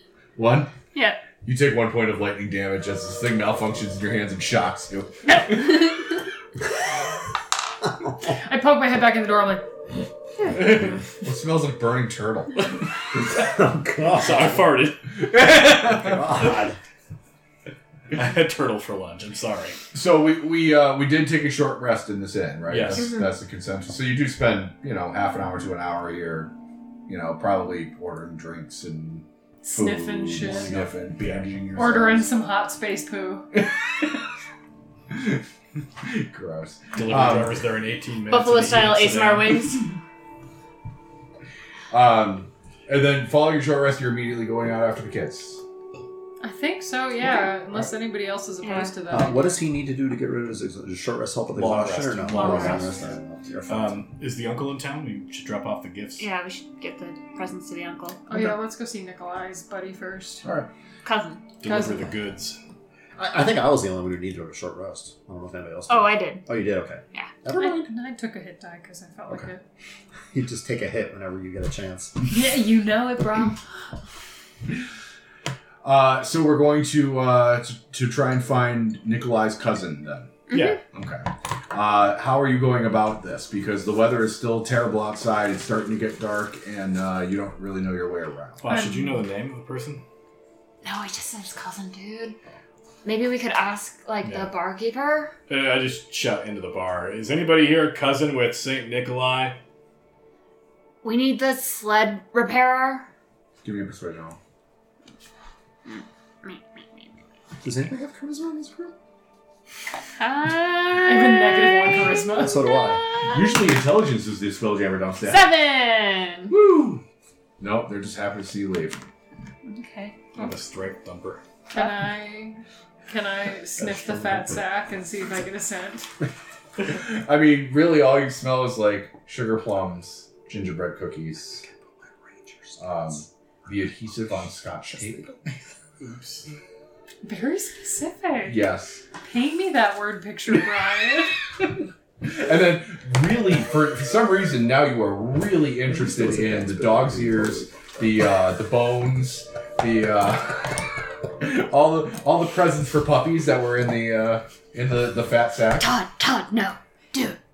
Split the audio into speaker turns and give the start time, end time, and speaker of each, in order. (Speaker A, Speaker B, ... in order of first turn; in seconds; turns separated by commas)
Speaker A: 0.3-0.7, Speaker B: 0.9-1.2, Speaker A: 1.4-5.9, Speaker B: 5.3-6.1, Speaker C: 8.2-9.7, Speaker A: 11.2-12.7, Speaker D: 13.1-14.6, Speaker E: 14.1-16.6, Speaker D: 15.9-16.8, Speaker E: 18.1-19.8, Speaker A: 19.9-26.5, Speaker E: 22.7-23.1, Speaker B: 23.0-23.2, Speaker A: 27.1-32.3, Speaker C: 29.6-30.8, Speaker E: 30.8-31.6, Speaker C: 31.7-33.5, Speaker A: 35.1-35.4, Speaker A: 36.0-37.6, Speaker E: 36.9-39.7, Speaker B: 38.3-40.0, Speaker A: 41.9-45.6, Speaker C: 46.4-49.5, Speaker B: 48.6-49.1, Speaker D: 49.1-54.0, Speaker E: 51.5-52.9, Speaker A: 51.9-52.9, Speaker B: 52.3-52.9, Speaker E: 53.7-56.3, Speaker B: 56.2-58.2, Speaker C: 58.3-60.4, Speaker A: 60.4-60.7, Speaker B: 61.0-61.4, Speaker E: 61.6-62.6, Speaker C: 61.6-62.0, Speaker D: 63.2-67.9, Speaker B: 65.9-66.5, Speaker C: 67.5-69.6, Speaker D: 70.3-72.1, Speaker C: 72.2-73.6, Speaker A: 75.8-80.3, Speaker B: 80.5-80.8, Speaker E: 80.5-80.8, Speaker A: 80.9-88.7, Speaker E: 88.6-90.0, Speaker C: 88.7-89.2, Speaker B: 90.8-92.4, Speaker B: 93.0-95.3, Speaker E: 94.2-94.5, Speaker E: 95.5-99.6, Speaker B: 101.0-103.1, Speaker A: 103.6-104.4, Speaker B: 105.8-107.1, Speaker D: 107.6-108.9, Speaker B: 110.2-113.4, Speaker C: 111.0-112.6, Speaker D: 112.4-113.0, Speaker A: 113.2-115.4, Speaker B: 115.2-116.5, Speaker A: 116.5-117.0, Speaker A: 117.6-119.1, Speaker B: 119.6-120.2, Speaker E: 120.3-121.4, Speaker C: 121.7-126.1, Speaker B: 121.7-122.0, Speaker A: 126.8-131.6, Speaker D: 131.6-133.1, Speaker A: 132.8-135.2, Speaker D: 134.9-135.6, Speaker E: 136.0-136.4, Speaker C: 137.2-138.6, Speaker A: 138.4-139.0, Speaker C: 139.2-141.3, Speaker A: 142.2-150.8, Speaker D: 145.9-147.7, Speaker A: 151.4-155.9, Speaker B: 155.8-157.4